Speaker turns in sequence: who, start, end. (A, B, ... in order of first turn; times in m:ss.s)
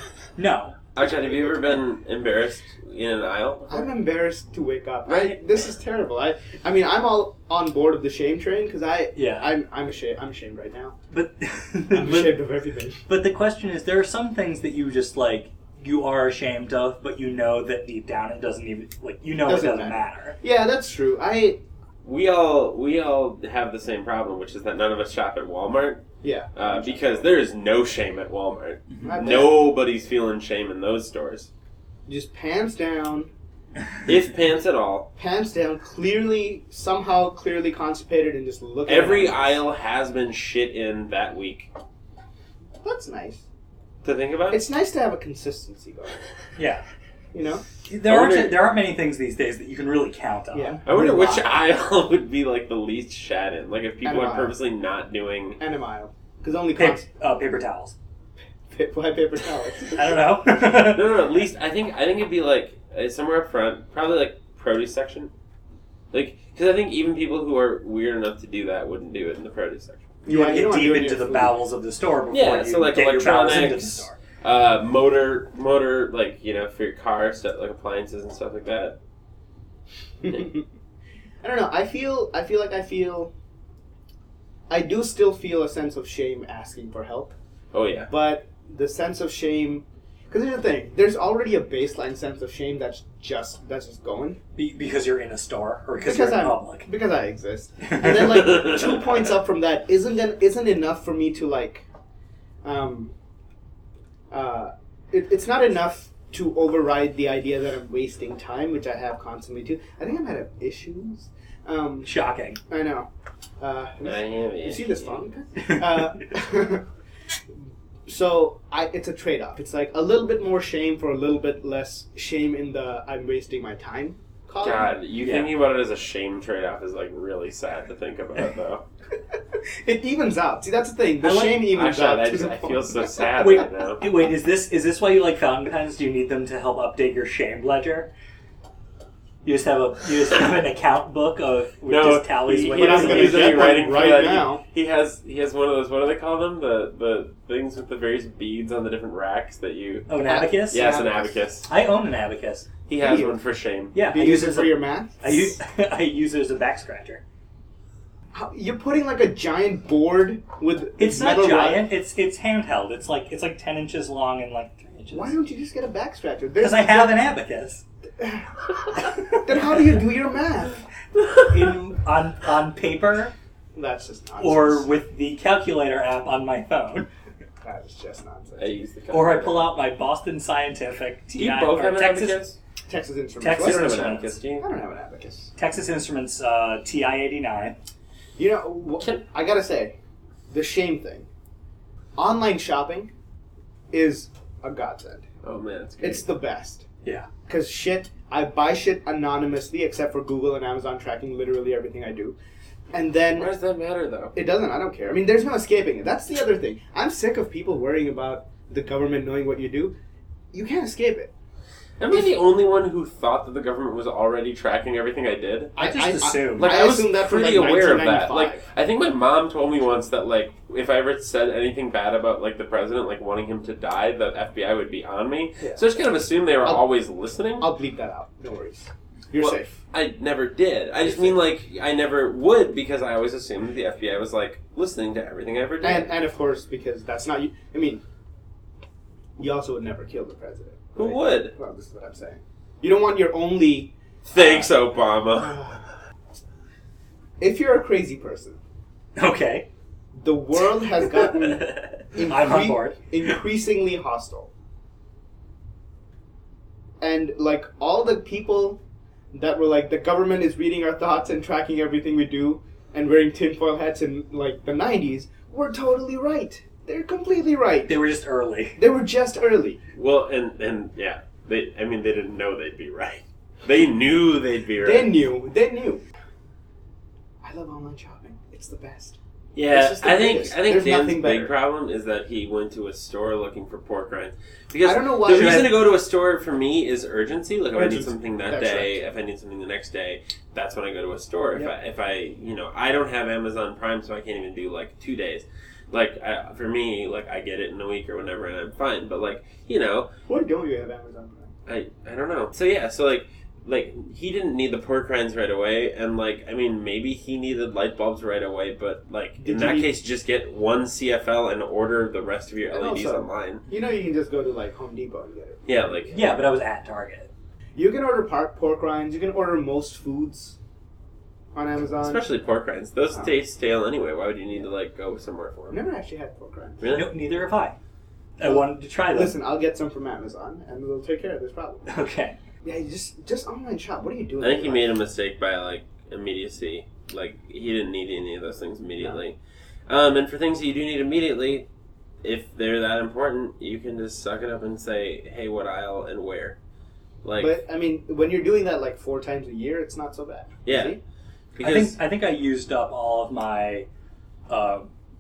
0:00.4-0:00.8 A
0:00.9-0:03.7 B
0:01.0-0:01.6 C
0:03.7-0:11.0 C
0:05.1-0:05.4 A
0:09.2-0:09.5 A
0:11.1-0:12.4 A
0:11.9-0:13.0 C
0:13.1-0:20.4 A
0:19.4-0:21.6 C
0:22.0-0:31.5 B
0:26.2-0:27.4 C
0:29.0-0:29.4 A
0:29.0-0:29.7 C
0:32.1-0:33.3 C
0:34.0-0:35.1 B
0:35.2-0:39.6 C
0:38.9-0:41.7 B
0:42.8-0:43.4 C
0:44.0-0:44.6 B
0:44.5-0:46.2 C
0:46.6-0:46.8 A
0:47.3-0:47.6 C
0:47.9-0:51.4 A
0:48.0-0:48.6 B
0:50.5-0:50.9 C
0:50.9-0:55.6 B
0:54.0-0:54.6 C
0:55.6-0:57.1 C
0:56.8-0:58.0 A
0:58.7-1:00.2 C
0:59.9-1:01.1 A
1:00.8-1:05.3 B
1:06.1-1:10.1 B
1:10.3-1:11.5 C
1:10.3-1:14.2 A
1:12.3-1:19.0 B
1:20.2-1:20.7 C
1:21.4-1:23.3 C
1:24.7-1:27.4 C
1:27.7-1:28.1 B
1:28.1-1:34.4 C
1:34.6-1:36.9 A
1:36.0-1:41.8 C
1:37.8-1:38.8 A
1:42.6-1:43.1 C
1:44.3-1:52.1 C
1:52.0-1:52.6 A
1:52.7-1:53.1 C
1:53.6-1:56.9 C
1:54.0-1:55.1 B
1:58.1-2:04.9 C
2:04.6-2:08.8 B
2:05.2-2:05.5 A
2:09.6-2:13.2 C
2:11.2-2:11.7 A
2:11.7-2:14.0 B
2:13.4-2:18.1 A
2:19.4-2:23.9 A
2:21.9-2:30.1 B
2:22.6-2:24.6 C
2:30.1-2:31.0 A
2:30.2-2:31.4 C
2:30.7-2:31.7 B
2:31.7-2:32.7 A
2:32.9-2:34.0 B
2:33.0-2:33.4 C
2:33.9-2:37.2 A
2:34.1-2:35.5 C
2:38.3-2:41.9 C
2:41.0-2:45.4 A
2:45.1-2:47.2 C
2:46.6-2:47.8 A
2:48.2-2:50.8 C
2:51.4-2:53.3 A
2:53.8-2:54.9 C
2:54.4-2:57.1 A
2:57.6-2:58.7 C
2:58.6-2:59.7 B
2:59.1-3:02.4 A
3:01.4-3:02.6 B
3:02.9-3:05.5 C
3:03.4-3:04.4 A
3:03.6-3:04.7 B
3:05.6-3:07.8 A
3:08.4-3:10.0 C
3:10.5-3:11.3 C
3:12.2-3:13.1 C
3:13.9-3:15.3 C
3:15.4-3:16.3 B
3:16.0-3:16.9 C
3:17.5-3:22.4 C
3:22.9-3:23.5 C
3:23.4-3:24.4 B
3:24.4-3:30.0 C
3:30.5-3:31.3 C
3:32.0-3:35.8 B
3:35.8-3:36.7 A
3:35.8-3:38.6 C
3:36.6-3:47.7 B
3:47.6-3:49.8 C
3:49.4-3:56.1 B
3:51.0-3:51.4 C
3:55.8-3:58.0 C
3:59.4-4:04.7 C
4:01.0-4:01.5 B
4:04.3-4:05.6 B
4:05.4-4:05.8 C
4:07.4-4:08.6 C
4:09.2-4:09.7 A
4:10.2-4:14.5 C
4:11.1-4:13.0 A
4:17.0-4:18.8 C
4:19.3-4:28.0 C
4:27.9-4:28.8 A
4:28.8-4:29.8 C
4:30.0-4:35.2 B
4:34.8-4:36.0 C
4:37.4-4:39.2 C
4:39.6-5:00.1 B
4:39.7-4:41.6 C
4:44.8-4:45.8 C
4:45.3-4:45.7 A
4:47.8-4:49.0 C
5:00.3-5:01.5 C
5:01.7-5:13.6 B
5:09.4-5:09.9 C
5:12.7-5:15.6 C
5:15.7-5:16.4 B
5:16.1-5:17.3 A
5:17.8-5:20.6 C
5:21.5-5:22.2 C
5:22.0-5:25.8 B
5:25.7-5:26.8 C
5:26.8-5:27.2 B
5:26.9-5:27.8 A
5:28.4-5:29.4 A
5:28.4-5:31.9 C
5:31.9-5:32.4 A
5:32.6-5:34.9 C
5:34.4-5:39.4 B
5:39.9-5:41.7 B
5:42.2-5:46.6 B
5:47.2-5:47.6 B
5:47.4-5:51.0 C
5:50.7-5:51.0 B
5:51.6-5:52.0 B
5:51.6-5:53.9 A
5:54.5-5:54.9 A